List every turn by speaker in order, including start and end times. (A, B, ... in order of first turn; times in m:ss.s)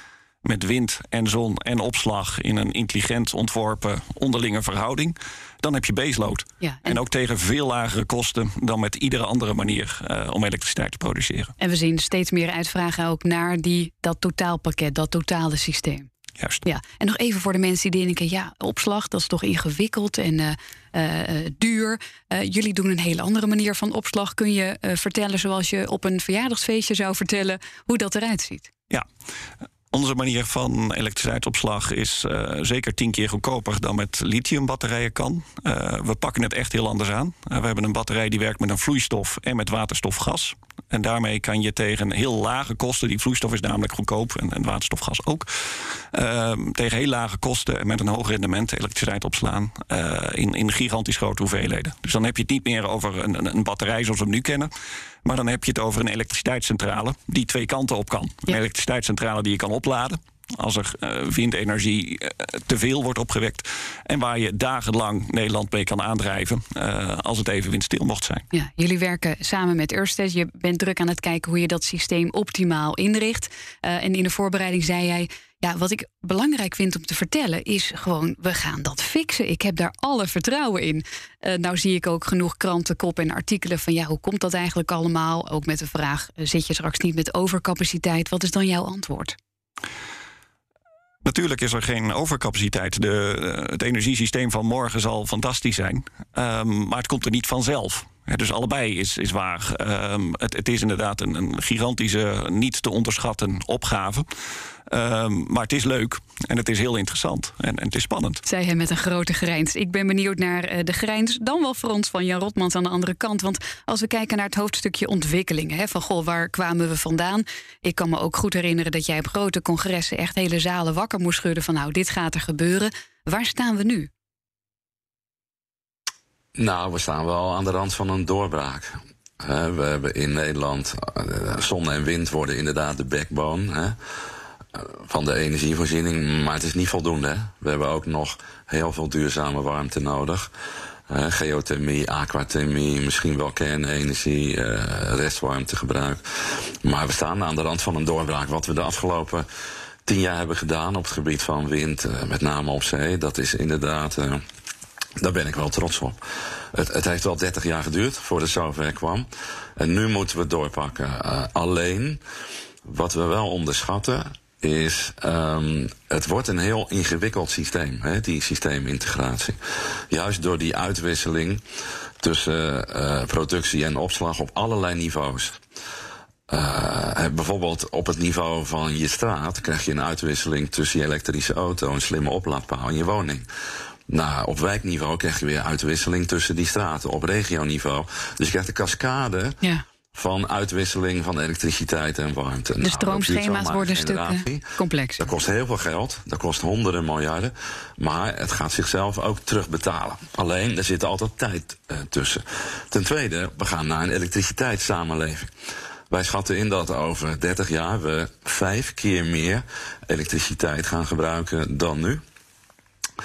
0:00.4-0:11.5 A
0:06.6-0:07.0 B
0:11.6-0:16.1 B
0:16.4-0:16.7 A
0:16.7-0:28.7 B
0:29.9-0:54.7 A
0:55.2-1:08.4 A
1:08.5-1:29.4 B
1:31.2-1:44.2 A
1:44.9-1:48.4 A
1:48.4-2:04.1 B
2:06.6-2:14.0 C
2:14.8-2:20.5 C
2:21.1-2:29.4 C
2:30.1-2:34.4 C
2:35.2-2:36.2 C
2:36.7-2:42.2 C
2:42.9-2:49.6 C
2:50.1-2:51.6 C
2:52.2-2:55.6 C
2:56.5-3:03.5 C
3:04.1-3:09.6 C
3:10.1-3:14.7 C
3:12.8-3:15.3 B
3:15.2-3:25.5 C
3:26.1-3:32.2 C